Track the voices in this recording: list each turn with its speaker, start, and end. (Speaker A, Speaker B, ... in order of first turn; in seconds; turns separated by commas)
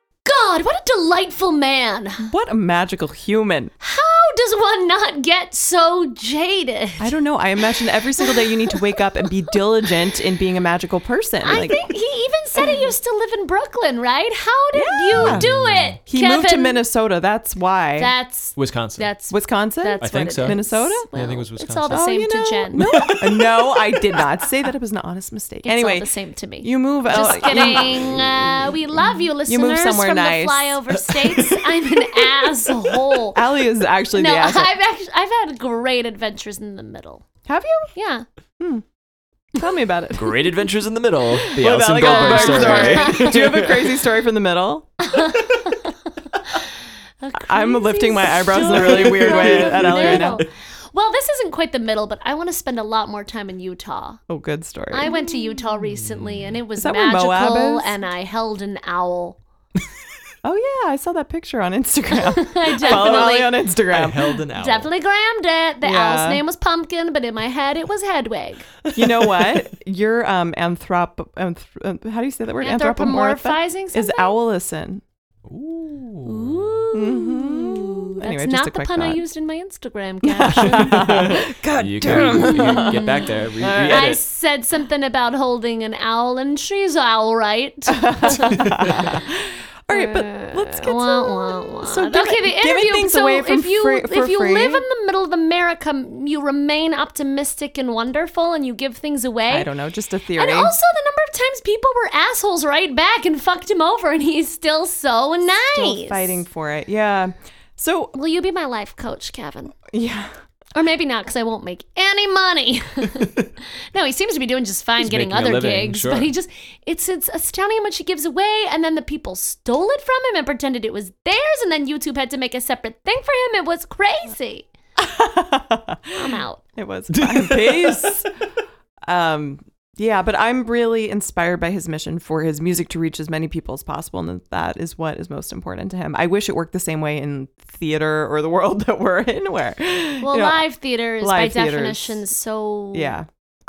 Speaker A: 0.2-2.3, Speaker B: 2.2-3.7, Speaker A: 3.8-7.1, Speaker B: 7.0-11.8, Speaker A: 8.2-8.7, Speaker A: 11.4-16.8, Speaker B: 12.6-12.8, Speaker B: 14.7-15.5, Speaker C: 15.2-16.0, Speaker B: 16.1-18.1, Speaker A: 18.0-23.1, Speaker C: 18.6-19.1, Speaker B: 19.3-21.1, Speaker C: 20.0-20.6, Speaker C: 21.1-22.1, Speaker B: 21.9-26.1, Speaker C: 22.7-24.2, Speaker A: 25.6-33.5, Speaker B: 26.6-32.5, Speaker B: 33.3-34.7, Speaker A: 34.1-37.2, Speaker B: 37.5-37.9, Speaker A: 38.0-38.2, Speaker B: 38.6-38.9, Speaker B: 39.5-40.4, Speaker C: 40.2-43.7, Speaker B: 41.4-45.0, Speaker A: 41.9-43.7, Speaker A: 45.0-45.9, Speaker A: 47.2-54.2, Speaker B: 47.4-50.4, Speaker C: 48.8-50.5, Speaker B: 54.3-55.2, Speaker A: 54.9-59.4, Speaker C: 56.0-56.5, Speaker B: 56.8-57.9, Speaker B: 60.4-64.4, Speaker A: 62.1-63.6, Speaker C: 62.9-63.4, Speaker C: 63.9-64.9, Speaker A: 64.6-68.8, Speaker B: 65.8-66.4, Speaker B: 68.9-75.0, Speaker A: 72.6-74.3, Speaker C: 75.5-76.8, Speaker A: 76.2-81.4, Speaker B: 76.9-79.2, Speaker B: 80.2-84.2, Speaker C: 80.5-84.2, Speaker A: 82.0-89.2, Speaker B: 88.0-89.4, Speaker B: 89.9-94.8, Speaker A: 89.9-99.7, Speaker B: 99.5-100.8, Speaker A: 100.4-106.4, Speaker B: 105.5-108.1, Speaker A: 108.2-109.8, Speaker B: 109.9-110.3, Speaker A: 110.8-124.7, Speaker C: 115.0-116.3, Speaker B: 125.0-128.3, Speaker A: 126.1-126.7, Speaker C: 127.1-128.2, Speaker B: 129.1-140.6, Speaker A: 140.2-143.2, Speaker B: 141.2-142.2, Speaker B: 142.9-143.3